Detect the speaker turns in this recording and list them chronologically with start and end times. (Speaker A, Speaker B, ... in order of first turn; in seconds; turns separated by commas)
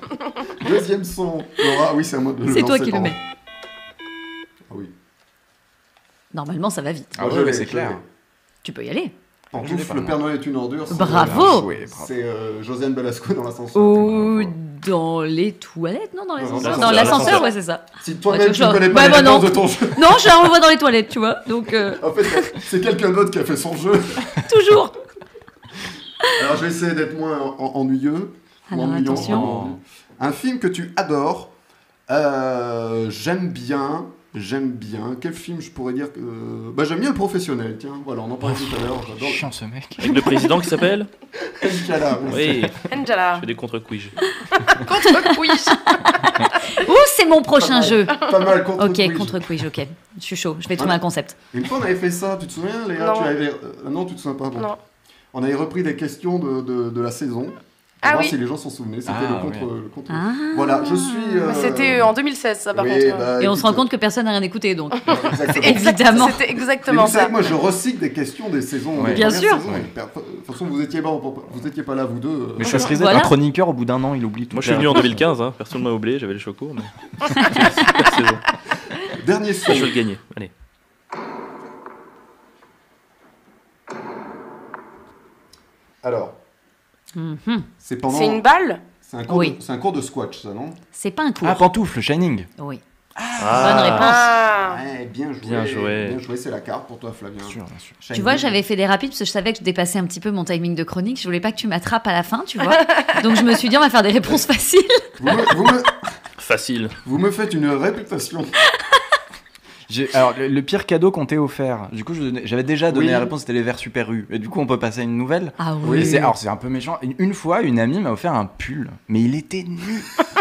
Speaker A: 0.6-3.2, Speaker B: 2.5-3.1, Speaker B: 6.3-7.1, Speaker C: 7.2-8.0, Speaker A: 7.2-8.0, Speaker B: 8.6-9.1, Speaker A: 9.5-14.5, Speaker C: 9.6-10.2, Speaker B: 10.9-11.7, Speaker C: 11.0-12.1, Speaker B: 13.8-22.5, Speaker A: 16.4-20.3, Speaker D: 16.6-17.5, Speaker A: 21.9-24.3, Speaker B: 24.4-25.0, Speaker A: 26.4-31.5, Speaker B: 28.7-29.5, Speaker C: 29.1-29.8, Speaker A: 32.1-39.5, Speaker C: 38.5-40.6, Speaker D: 40.0-41.1, Speaker A: 41.5-42.7, Speaker D: 42.3-42.8, Speaker E: 42.9-43.5, Speaker D: 43.3-44.2, Speaker E: 44.7-45.9, Speaker B: 45.9-51.4, Speaker A: 47.6-49.5, Speaker A: 51.5-54.7, Speaker E: 53.0-53.3, Speaker A: 55.3-62.1, Speaker E: 58.0-58.4, Speaker C: 59.1-59.7, Speaker B: 60.1-61.7, Speaker E: 61.5-63.3, Speaker A: 62.7-63.9, Speaker B: 63.4-66.4, Speaker A: 65.1-72.9, Speaker E: 65.1-67.4, Speaker C: 69.0-69.9, Speaker B: 69.1-69.6, Speaker C: 72.6-75.2, Speaker B: 72.9-73.3, Speaker D: 74.5-78.4, Speaker A: 79.1-79.9, Speaker D: 79.7-80.5, Speaker A: 86.0-86.4, Speaker B: 87.2-87.7, Speaker A: 87.8-88.5, Speaker E: 88.1-88.8, Speaker A: 89.0-90.8, Speaker B: 89.3-89.6, Speaker B: 90.9-91.7, Speaker C: 91.4-92.5, Speaker C: 93.2-93.9, Speaker D: 93.4-94.2, Speaker B: 93.5-94.3, Speaker E: 93.9-94.8, Speaker A: 94.6-98.6, Speaker D: 95.4-96.2, Speaker C: 97.4-98.0, Speaker B: 98.1-105.1, Speaker E: 102.7-103.0, Speaker A: 105.2-106.0, Speaker D: 106.4-106.9, Speaker A: 107.0-108.5, Speaker C: 109.9-120.1, Speaker A: 112.9-113.3, Speaker B: 115.6-116.3, Speaker A: 115.8-116.3